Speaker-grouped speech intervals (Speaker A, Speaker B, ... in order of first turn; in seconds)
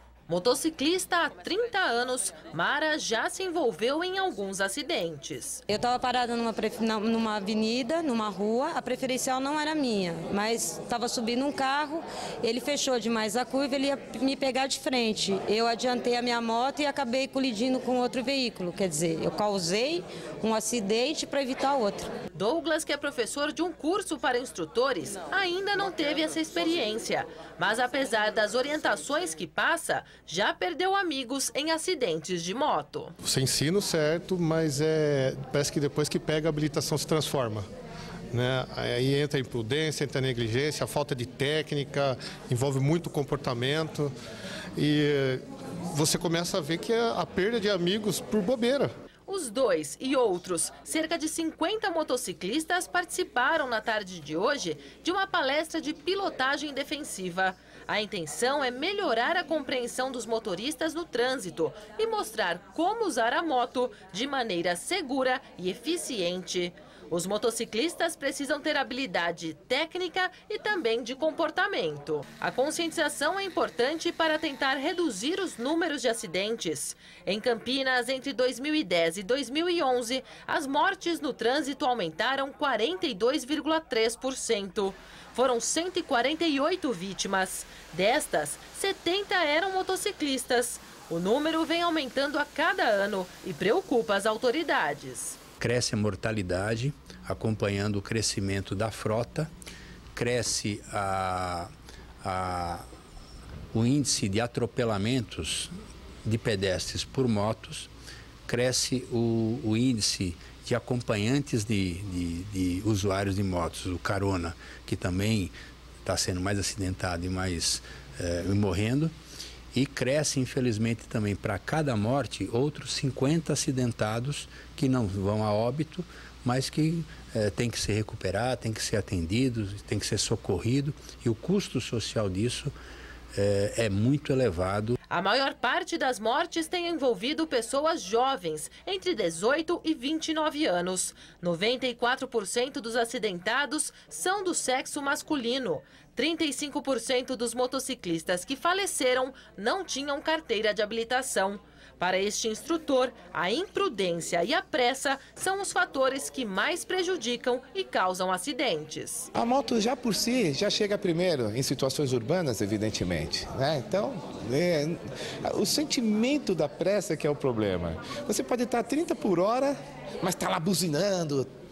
Speaker A: 0.3-5.6, 22.3-33.1, 49.3-95.4, 135.1-159.3
Speaker B: 5.7-22.1
Speaker C: 33.2-37.6, 38.3-44.1, 44.8-45.4, 45.9-48.9
Speaker D: 95.6-99.5, 100.2-101.7, 102.2-102.8, 103.7-105.7, 106.2-107.9, 108.5-115.5, 116.0-119.1, 119.7-132.7, 133.3-134.9
Speaker E: 159.3-171.5